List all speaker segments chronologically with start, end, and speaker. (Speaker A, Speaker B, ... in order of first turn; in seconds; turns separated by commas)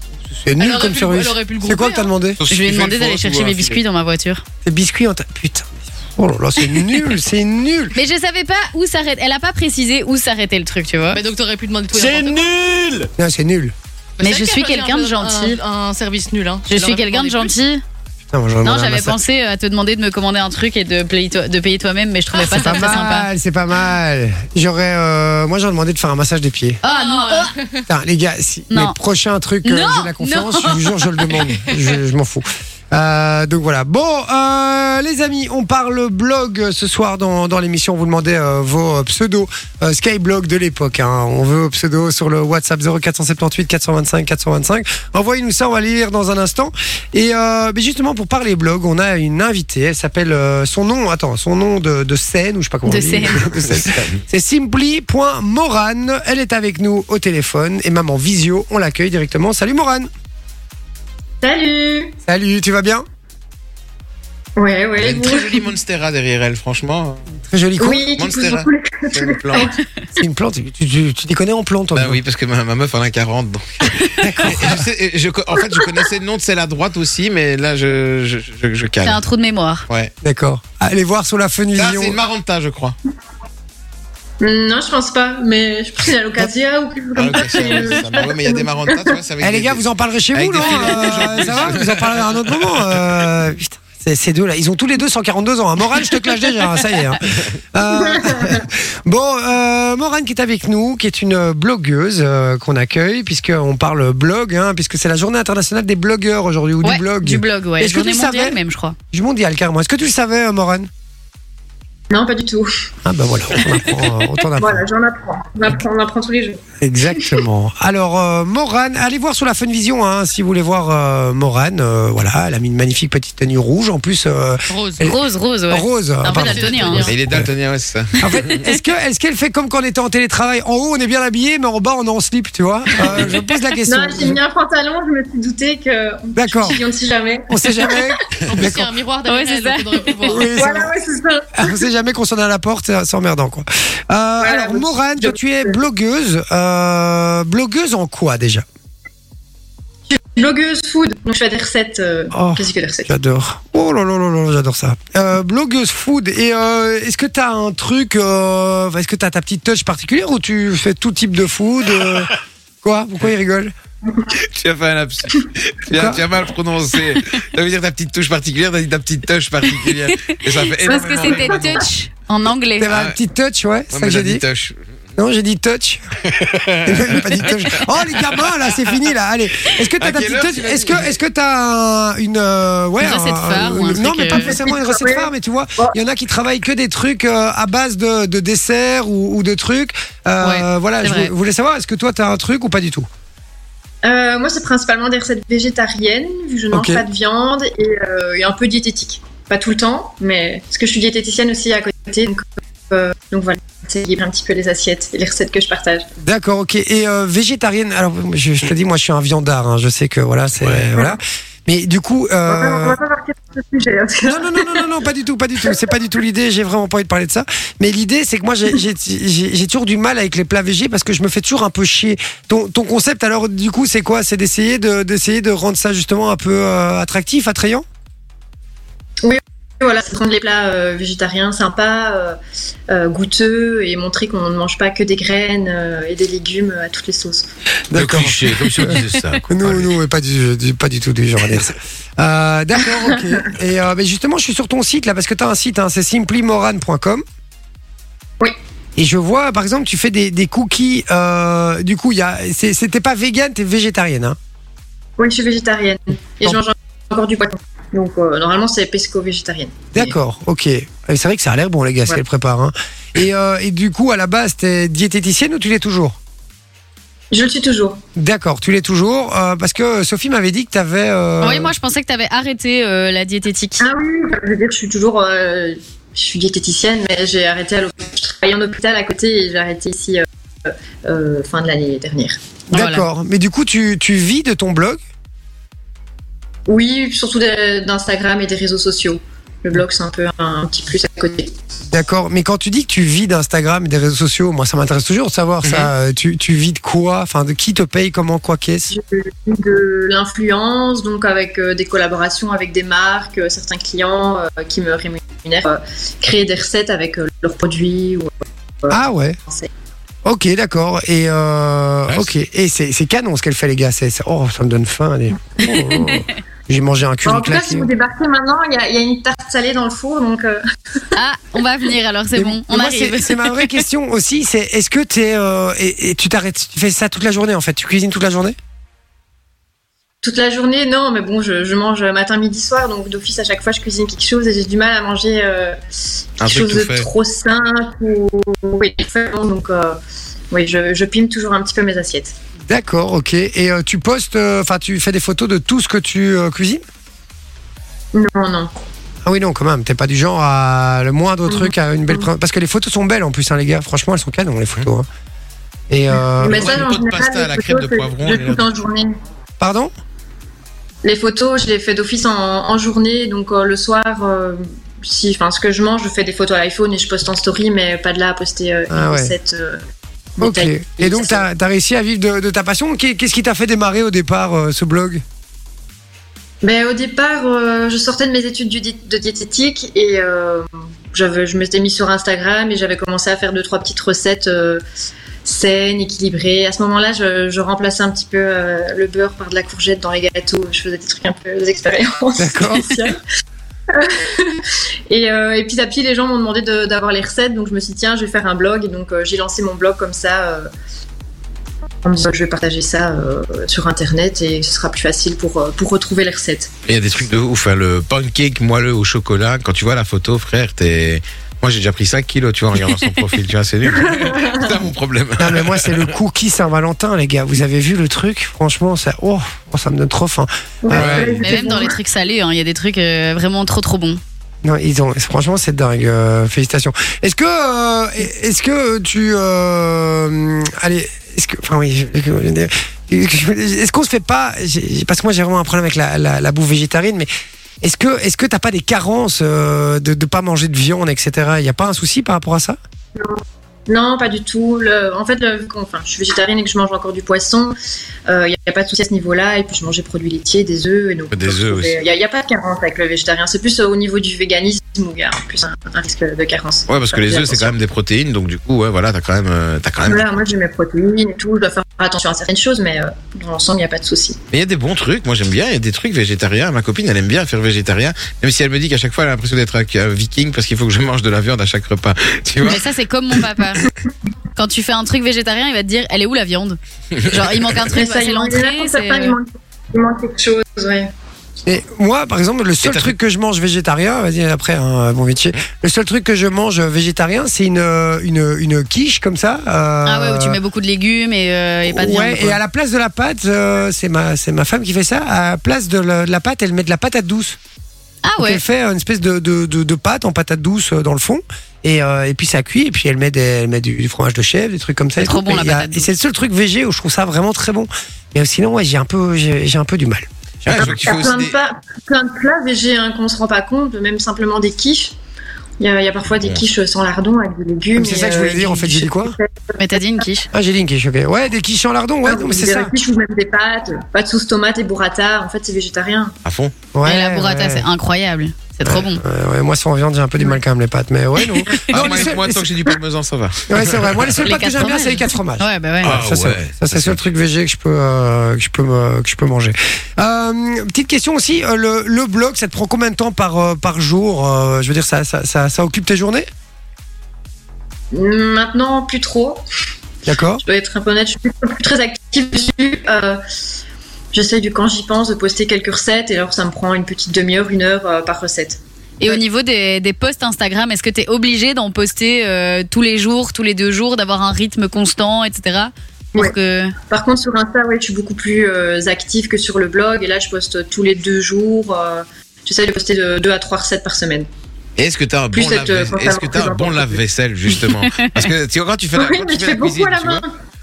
Speaker A: 0.3-2.4, Speaker B: 0.6-2.1, Speaker C: 2.4-3.8, Speaker D: 2.5-4.4, Speaker A: 4.6-7.9, Speaker D: 7.9-11.2, Speaker B: 11.1-12.6, Speaker C: 12.2-13.0, Speaker A: 13.2-13.7, Speaker B: 14.2-17.5, Speaker D: 14.2-15.6, Speaker D: 16.7-17.8, Speaker A: 18.3-19.2, Speaker D: 18.6-23.3, Speaker A: 22.3-26.8, Speaker B: 22.4-23.0, Speaker D: 26.8-27.5, Speaker B: 26.8-27.8, Speaker A: 27.9-60.1, Speaker D: 29.6-31.3, Speaker D: 52.9-53.5, Speaker C: 53.7-54.2, Speaker E: 61.4-62.1, Speaker A: 62.2-63.0, Speaker E: 64.6-65.6, Speaker C: 65.0-67.2, Speaker A: 67.5-68.1, Speaker E: 67.8-69.8, Speaker C: 68.2-69.7, Speaker A: 70.2-72.2, Speaker C: 71.9-79.2, Speaker A: 74.2-74.8, Speaker D: 79.0-79.8, Speaker A: 80.2-82.2, Speaker C: 81.8-83.0, Speaker E: 84.4-89.1, Speaker C: 87.1-89.8, Speaker A: 89.4-108.6, Speaker C: 90.3-93.0, Speaker E: 98.0-98.6, Speaker D: 106.8-109.0, Speaker A: 109.1-110.9, Speaker E: 112.1-112.7, Speaker A: 113.0-114.8, Speaker E: 114.6-116.6, Speaker A: 116.8-125.2, Speaker B: 124.7-125.1, Speaker D: 125.0-127.1, Speaker A: 125.7-127.5, Speaker B: 126.3-127.2, Speaker C: 127.0-128.4, Speaker A: 128.2-134.4, Speaker E: 133.8-138.2, Speaker A: 136.3-136.8, Speaker A: 137.5-138.9, Speaker B: 138.5-140.6, Speaker D: 139.3-140.4, Speaker A: 140.3-140.9, Speaker E: 140.6-141.8, Speaker A: 141.5-148.6, Speaker E: 144.4-145.7, Speaker E: 150.1-153.1, Speaker A: 152.3-162.3, Speaker A: 162.8-163.7, Speaker C: 164.5-171.9, Speaker A: 165.9-166.2, Speaker D: 170.3-172.9, Speaker A: 172.8-174.4, Speaker C: 172.9-173.2, Speaker C: 173.9-174.8, Speaker A: 175.2-176.0, Speaker C: 176.3-179.0, Speaker A: 176.8-193.1, Speaker C: 179.7-181.1, Speaker D: 183.0-184.5, Speaker E: 184.3-185.9, Speaker D: 190.4-191.3, Speaker E: 194.0-206.1, Speaker A: 196.7-197.0, Speaker A: 206.2-213.0, Speaker C: 210.6-210.9, Speaker E: 212.5-214.9, Speaker A: 214.2-227.8, Speaker E: 229.2-232.4, Speaker E: 232.9-237.5, Speaker A: 237.9-247.2, Speaker C: 237.9-239.9, Speaker A: 248.9-254.4, Speaker E: 255.2-260.1, Speaker A: 259.9-266.1, Speaker E: 267.3-268.0, Speaker A: 268.1-271.7, Speaker D: 271.4-273.8, Speaker E: 273.8-282.4, Speaker A: 282.7-285.0, Speaker D: 282.7-283.1, Speaker E: 286.7-291.5, Speaker A: 291.9-298.9, Speaker C: 295.6-295.9, Speaker E: 298.9-309.7, Speaker A: 308.9-309.4, Speaker A: 310.2-317.9, Speaker D: 315.9-316.2, Speaker E: 317.2-320.6, Speaker D: 321.1-323.8, Speaker A: 322.4-328.6, Speaker E: 330.2-335.8, Speaker E: 336.4-340.0, Speaker C: 336.4-337.1, Speaker E: 340.5-342.3, Speaker A: 342.7-346.8, Speaker E: 348.1-348.7, Speaker A: 349.2-355.1, Speaker E: 351.5-352.2, Speaker A: 355.9-356.8, Speaker E: 356.4-359.2, Speaker C: 356.5-358.7, Speaker A: 359.6-359.9, Speaker E: 361.0-369.8, Speaker A: 368.9-369.3, Speaker E: 370.4-371.4, Speaker A: 370.4-375.2, Speaker E: 376.6-384.8, Speaker E: 385.4-393.2, Speaker A: 392.4-393.1, Speaker E: 393.9-400.7, Speaker E: 402.0-406.7, Speaker C: 406.9-416.1, Speaker E: 413.9-414.8, Speaker A: 415.4-421.8, Speaker E: 420.8-422.0, Speaker C: 420.9-421.4, Speaker D: 421.4-424.2, Speaker A: 424.6-437.3, Speaker A: 437.8-442.8, Speaker E: 443.1-457.8, Speaker C: 451.3-452.0, Speaker C: 456.9-460.4, Speaker E: 460.1-464.4, Speaker C: 464.5-472.8, Speaker D: 472.6-473.8, Speaker D: 474.6-479.4, Speaker E: 477.9-481.1, Speaker A: 481.6-490.6, Speaker C: 482.8-483.1, Speaker D: 490.0-492.6, Speaker A: 491.9-497.6, Speaker D: 498.2-498.6, Speaker A: 498.4-510.3, Speaker D: 505.2-506.1, Speaker C: 510.6-511.6, Speaker E: 510.7-515.1, Speaker E: 515.8-519.8, Speaker C: 516.4-516.6, Speaker A: 517.9-519.4, Speaker D: 519.8-520.5, Speaker A: 520.5-522.9, Speaker E: 522.2-526.3, Speaker C: 526.4-526.7, Speaker A: 526.9-527.9, Speaker D: 527.0-529.2, Speaker A: 528.8-532.7, Speaker C: 531.9-534.4, Speaker E: 532.0-532.3, Speaker A: 533.7-546.5, Speaker D: 534.4-536.2, Speaker C: 536.0-537.2, Speaker E: 548.1-549.6, Speaker A: 550.2-550.6, Speaker E: 550.6-553.4, Speaker E: 554.3-559.4, Speaker D: 559.2-566.9, Speaker E: 566.3-574.5, Speaker C: 575.0-580.4, Speaker E: 575.5-577.2, Speaker D: 578.0-578.3, Speaker E: 579.1-580.5